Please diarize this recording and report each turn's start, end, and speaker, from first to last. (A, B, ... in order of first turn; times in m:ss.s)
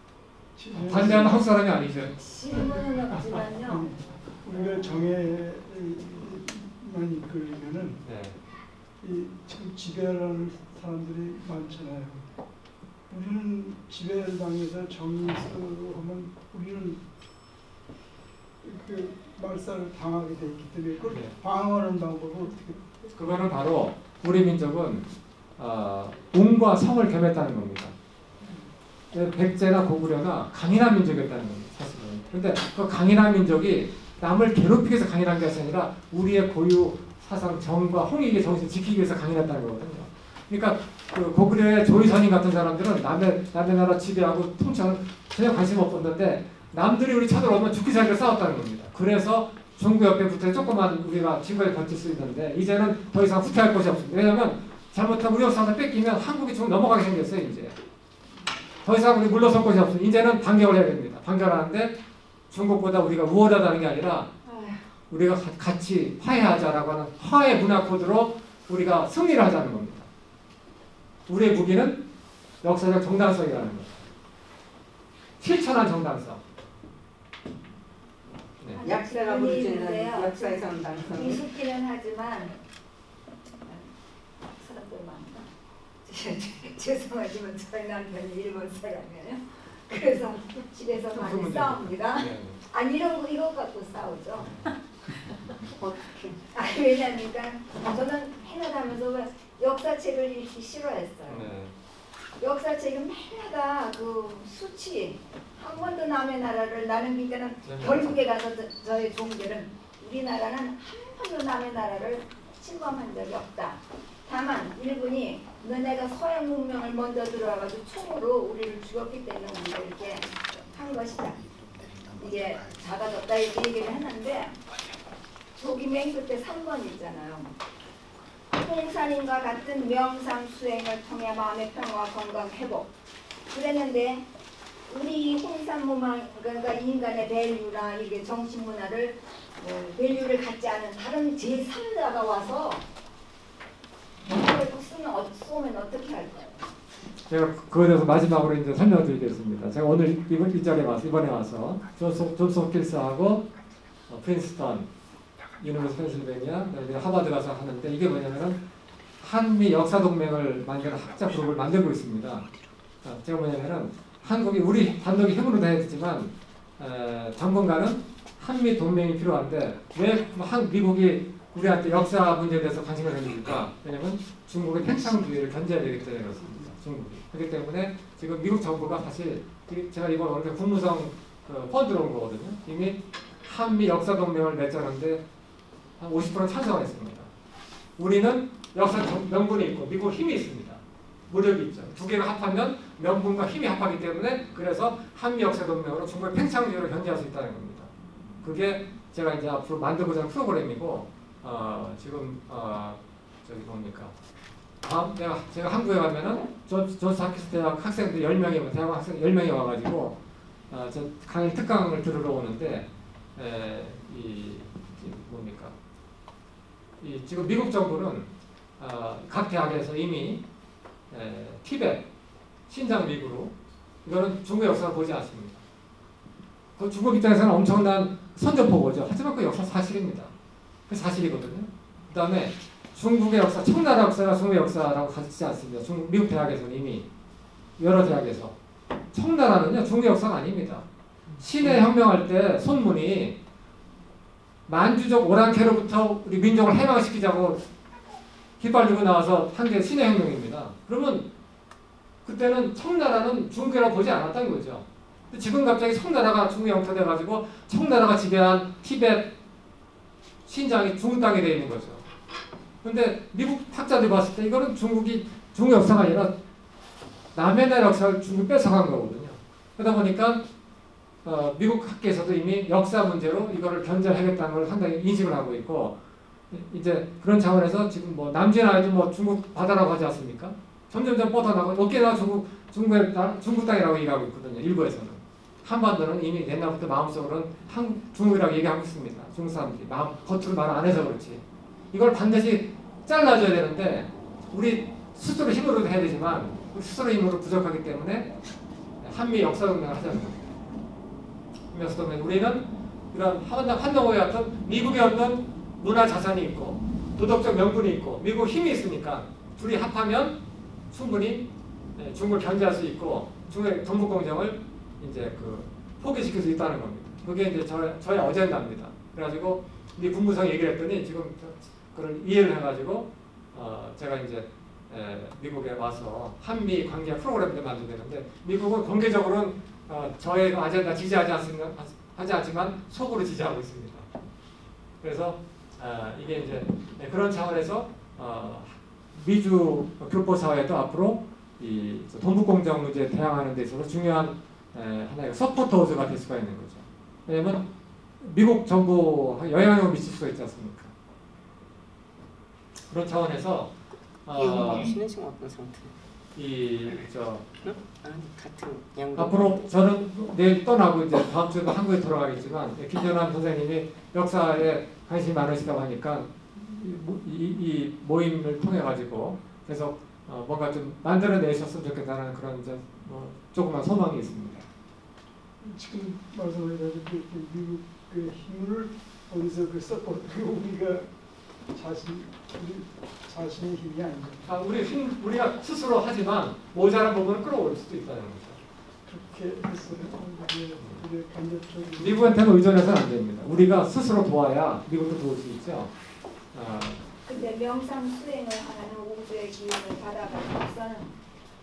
0:00.6-0:01.4 A
0:00.8-0:02.2 B
0:02.2-0:03.9 C
0:02.5-0:08.0 A
0:08.0-0:08.4 B
0:09.0-0:12.2 A
0:13.1-0:17.0 A
0:18.6-0:23.1 A
0:23.1-0:27.9 B
0:29.1-0:57.8 B
0:58.8-1:02.0 B
1:02.5-1:04.3 B
1:04.4-1:04.8 D
1:05.1-1:10.1 B
1:11.3-1:12.0 B
1:12.6-1:13.9 B
1:15.4-1:16.4 B
1:18.7-1:22.5 C
1:18.8-1:21.4 D
1:24.5-1:25.5 C
1:26.0-1:34.7 C
1:31.1-1:32.6 B
1:34.4-1:34.7 B
1:35.8-1:36.4 D
1:36.5-1:41.5 C
1:41.3-1:41.7 B
1:42.4-2:01.6 C
1:47.6-1:48.1 B
2:02.1-2:04.6 C
2:05.6-2:07.5 C
2:08.5-2:12.9 C
2:13.5-2:14.2 C
2:14.9-2:22.8 C
2:24.2-2:26.7 C
2:27.3-2:33.4 B
2:34.1-2:34.9 B
2:35.6-2:38.6 B
2:39.2-2:42.5 B
2:43.0-3:05.2 B
3:06.0-3:07.3 B
3:08.0-3:24.1 B
3:24.8-3:30.2 B
3:30.7-3:35.8 B
3:37.0-3:40.4 B
3:41.1-3:42.0 B
3:42.7-3:45.6 B
3:46.8-3:50.3 B
3:50.9-3:57.1 B
3:57.8-3:58.5 B
3:59.1-4:00.8 B
4:01.4-4:03.4 B
4:04.7-4:07.6 B
4:08.6-4:11.3 B
4:12.2-4:19.3 B
4:20.4-4:22.0 B
4:22.8-4:26.3 B
4:27.3-4:30.4 B
4:31.2-4:36.0 B
4:36.5-4:58.3 B
4:59.0-5:00.4 B
5:01.7-5:10.4 B
5:10.9-5:34.1 B
5:35.0-5:47.6 B
5:48.2-5:50.9 B
5:52.9-5:53.7 B
5:54.2-5:55.0 B
5:54.3-5:55.9 D
5:56.3-5:57.4 B
5:57.6-5:59.6 D
5:59.2-6:14.6 B
6:15.6-6:21.1 A
6:21.7-6:24.5 A
6:24.4-6:28.6 B
6:29.0-6:32.5 A
6:30.8-6:31.0 B
6:32.0-6:35.9 B
6:36.5-6:37.0 B
6:37.2-6:41.1 C